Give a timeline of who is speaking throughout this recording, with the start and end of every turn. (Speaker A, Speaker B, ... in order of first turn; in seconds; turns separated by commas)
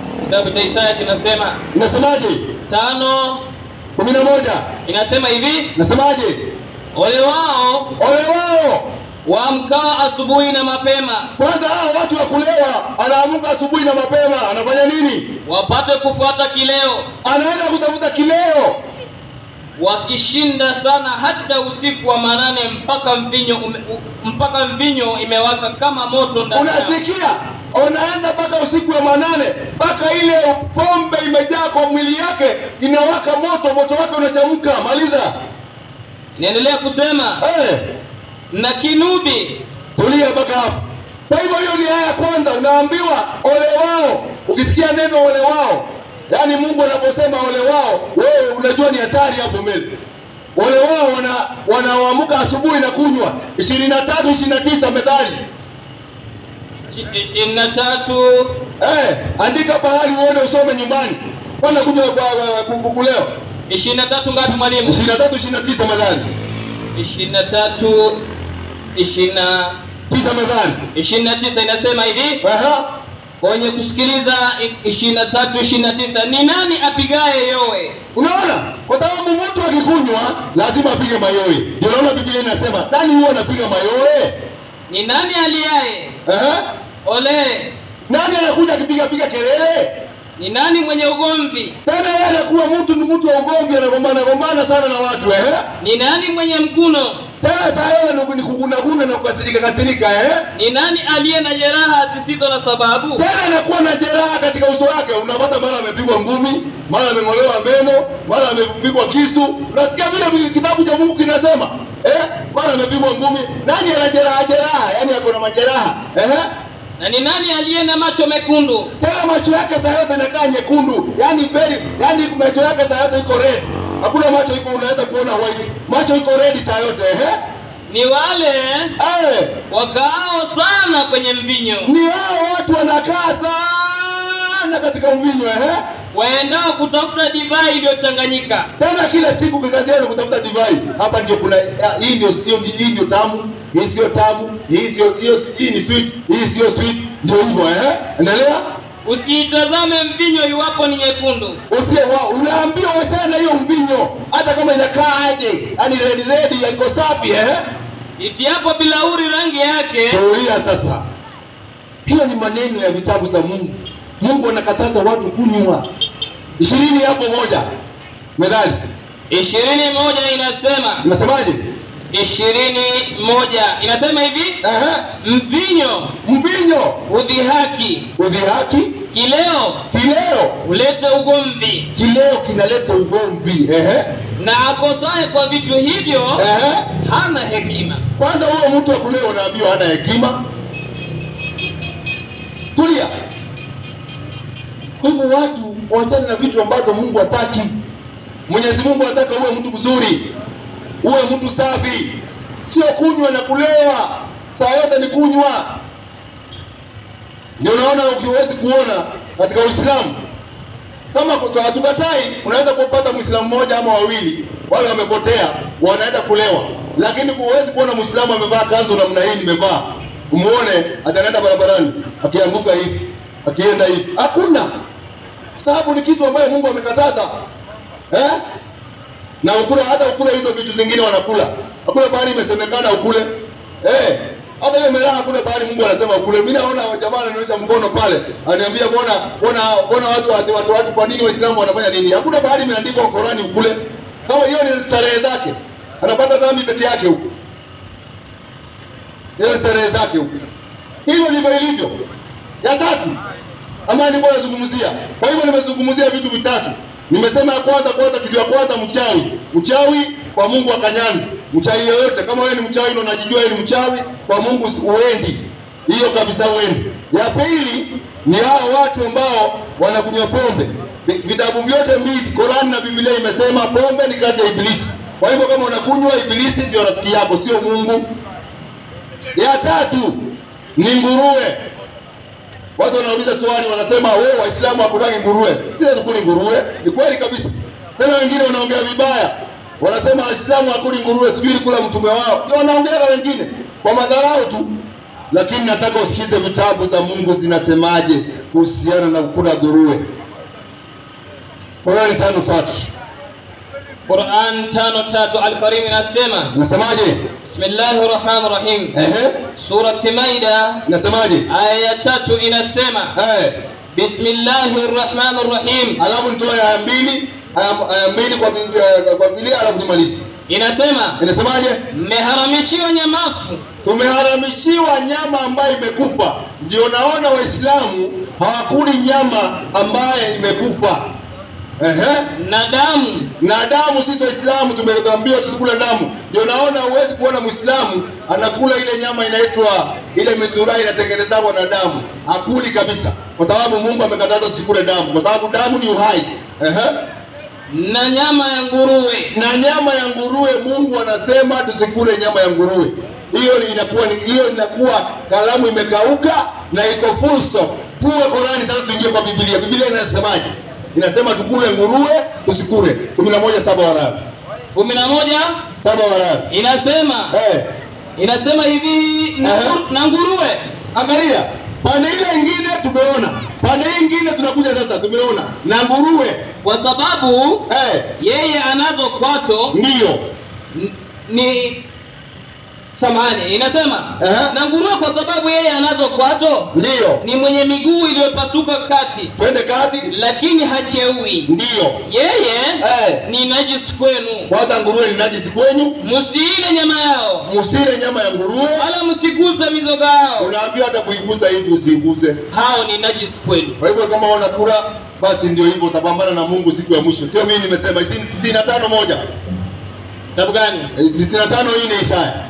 Speaker A: 0.2-1.6, Speaker B: 1.7-2.5, Speaker A: 2.7-3.4, Speaker B: 4.0-4.7, Speaker A: 4.8-5.7, Speaker B: 5.7-6.4, Speaker A: 6.9-7.9, Speaker B: 8.0-8.9, Speaker A: 9.2-11.3, Speaker B: 11.4-15.3, Speaker A: 15.4-17.1, Speaker B: 17.2-18.8, Speaker A: 19.8-27.0, Speaker B: 26.5-35.3, Speaker A: 36.4-37.4, Speaker B: 37.4-37.8, Speaker A: 38.5-39.6, Speaker B: 40.0-49.9, Speaker B: 50.5-55.4, Speaker A: 56.9-58.6, Speaker B: 58.8-63.3, Speaker A: 63.7-65.0, Speaker B: 64.8-66.3, Speaker A: 66.9-68.2, Speaker A: 68.9-69.8, Speaker B: 70.1-70.8, Speaker A: 70.9-72.4, Speaker B: 72.4-72.9, Speaker A: 73.4-78.0, Speaker B: 78.1-84.3, Speaker A: 84.9-86.2, Speaker B: 86.2-86.6, Speaker A: 87.0-87.7, Speaker B: 88.1-89.9, Speaker A: 90.4-91.8, Speaker B: 91.8-95.6, Speaker A: 95.8-97.2, Speaker B: 97.4-100.4, Speaker A: 100.5-103.2, Speaker B: 103.2-116.5, Speaker A: 117.0-118.9, Speaker B: 119.0-127.4, Speaker A: 127.9-128.9, Speaker B: 129.0-129.6, Speaker A: 129.7-131.9, Speaker B: 131.8-135.8, Speaker A: 136.1-138.7, Speaker B: 138.8-148.6, Speaker A: 149.0-151.6, Speaker B: 151.7-157.6, Speaker A: 158.2-160.2, Speaker B: 160.1-161.0, Speaker B: 162.1-165.8, Speaker B: 166.6-167.6, Speaker B: 168.4-168.8, Speaker A: 169.3-171.0, Speaker B: 171.0-171.6, Speaker A: 172.1-174.6, Speaker B: 174.6-175.1, Speaker A: 175.2-176.2, Speaker B: 176.2-177.0, Speaker A: 177.1-178.1, Speaker B: 178.2-179.0, Speaker A: 179.1-179.9, Speaker B: 179.9-180.6, Speaker A: 180.6-181.9, Speaker B: 181.9-184.1, Speaker A: 184.4-188.0, Speaker B: 186.3-186.9, Speaker B: 188.2-190.4, Speaker B: 192.7-193.1, Speaker B: 195.0-197.7, Speaker B: 198.5-200.3, Speaker B: 201.0-202.1, Speaker B: 202.7-205.8, Speaker B: 207.6-210.1, Speaker B: 211.1-224.7, Speaker B: 225.6-227.3, Speaker B: 228.1-228.4, Speaker B: 229.4-233.3, Speaker B: 233.8-247.2, Speaker B: 249.4-250.4, Speaker B: 251.1-251.9, Speaker B: 252.6-253.2, Speaker B: 253.9-278.1, Speaker B: 279.3-280.2, Speaker B: 280.8-281.6, Speaker B: 282.8-294.7, Speaker B: 295.3-300.1, Speaker B: 301.8-302.9, Speaker A: 304.1-306.5, Speaker B: 306.5-307.2, Speaker A: 307.4-308.9, Speaker B: 308.9-309.4, Speaker A: 309.6-310.8, Speaker B: 310.9-311.5, Speaker A: 311.5-313.1, Speaker B: 313.1-313.6, Speaker A: 313.9-316.0, Speaker B: 316.0-320.2, Speaker A: 320.5-321.2, Speaker B: 321.2-321.8, Speaker A: 321.9-323.6, Speaker B: 323.8-331.0, Speaker B: 331.8-332.3, Speaker A: 332.3-333.3, Speaker B: 333.4-346.9, Speaker A: 347.7-349.3, Speaker B: 349.3-364.2, Speaker A: 364.7-365.6, Speaker B: 365.8-366.5, Speaker A: 366.5-367.4, Speaker B: 367.3-367.6, Speaker A: 368.1-370.6, Speaker B: 369.4-369.8, Speaker B: 370.9-376.4, Speaker A: 376.6-377.6, Speaker B: 377.7-378.1, Speaker A: 378.2-379.8, Speaker B: 379.7-380.2, Speaker A: 380.7-381.8, Speaker A: 382.9-389.3, Speaker B: 384.2-384.5, Speaker B: 386.7-387.2, Speaker B: 389.4-390.1, Speaker A: 390.1-391.5, Speaker B: 391.4-392.0, Speaker A: 392.0-394.5, Speaker B: 392.8-393.2, Speaker B: 394.5-396.0, Speaker A: 396.0-397.5, Speaker B: 397.4-398.9, Speaker A: 398.8-400.5, Speaker B: 400.4-402.4, Speaker A: 402.5-403.8, Speaker B: 403.8-409.2, Speaker A: 410.3-410.9, Speaker B: 410.9-412.4